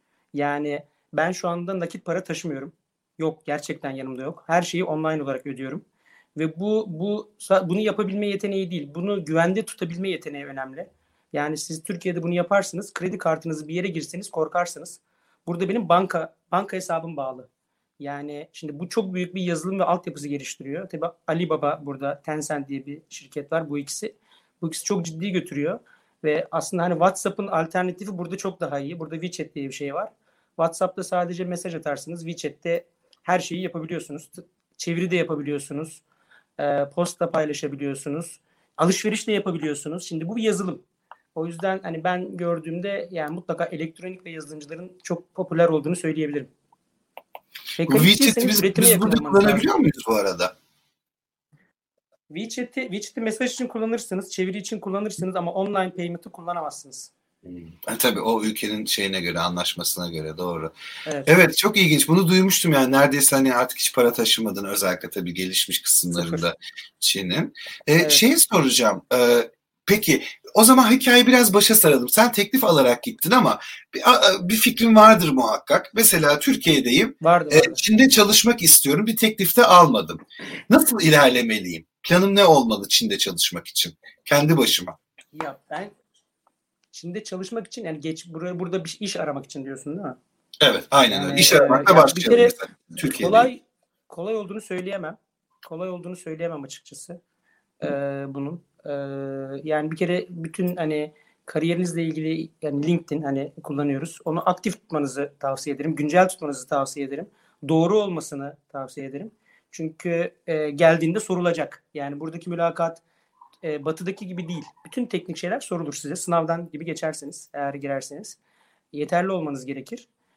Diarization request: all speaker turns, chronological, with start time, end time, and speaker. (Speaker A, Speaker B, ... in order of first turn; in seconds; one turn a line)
Speaker A: 0.3-5.8
Speaker A: 6.4-17.5
Speaker A: 18.0-36.0
Speaker A: 36.6-40.8
Speaker A: 41.4-46.5
Speaker A: 47.8-49.7
Speaker B: 47.8-50.5
Speaker A: 52.3-57.1
Speaker B: 57.5-60.7
Speaker A: 61.1-61.5
Speaker B: 61.3-85.0
Speaker A: 66.1-66.5
Speaker A: 68.0-68.2
Speaker A: 77.2-77.8
Speaker A: 85.3-85.9
Speaker A: 86.9-90.2
Speaker B: 90.6-93.5
Speaker A: 91.1-97.2
Speaker A: 97.8-113.0
Speaker A: 113.6-118.4
Speaker A: 118.9-120.1